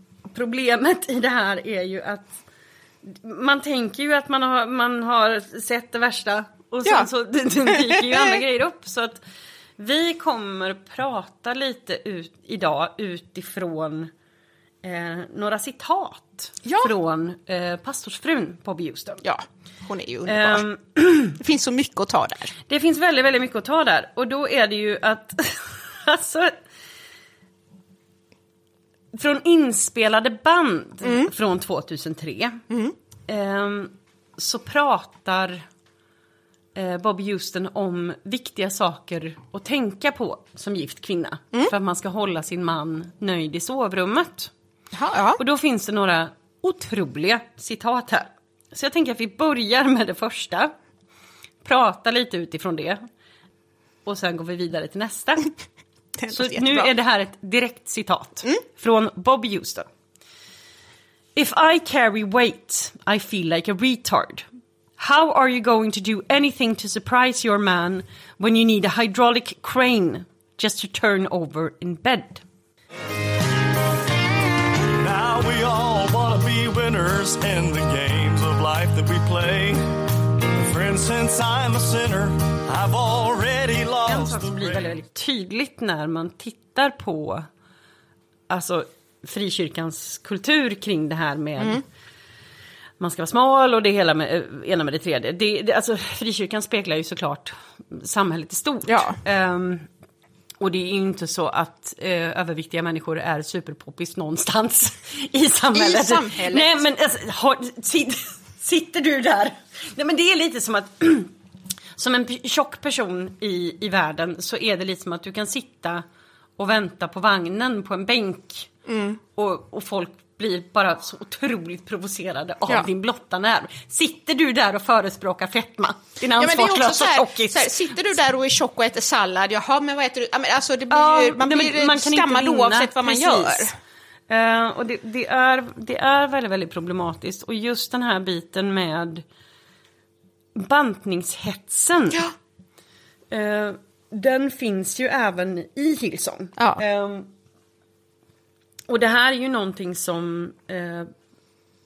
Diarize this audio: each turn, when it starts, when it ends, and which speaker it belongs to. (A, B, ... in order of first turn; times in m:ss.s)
0:00.3-0:02.4 A
0:03.0-0:09.2 A
0:07.7-0:08.4 B
0:09.8-0:14.1 A
0:14.8-0:19.2 A
0:16.6-0:16.9 B
0:19.2-0:20.6 B
0:20.3-0:21.4 A
0:21.4-0:22.5 B
0:22.7-0:26.5 A
0:29.1-0:32.6 A
0:31.0-0:31.3 B
0:33.3-0:35.6 A
0:36.7-0:44.5 A
0:44.9-0:45.4 B
0:45.4-0:50.7 A
0:51.6-0:53.0 A
0:54.0-0:55.5 A
0:56.2-0:56.9 B
0:56.3-0:59.9 A
1:01.4-1:04.4 A
1:05.0-1:12.4 A
1:15.0-1:19.8 C
1:20.5-1:24.9 C
1:24.0-1:27.5 A
1:28.5-1:31.8 A
1:33.0-1:39.9 A
1:38.9-1:39.2 B
1:40.6-1:51.3 A
1:45.7-1:46.8 B
1:52.0-1:56.0 A
1:56.6-1:58.7 A
1:58.8-1:59.2 B
1:59.3-2:07.7 A
2:06.4-2:13.7 B
2:10.9-2:13.7 A
2:14.3-2:19.2 A
2:20.5-2:22.3 A
2:23.3-2:27.3 A
2:28.9-2:31.1 A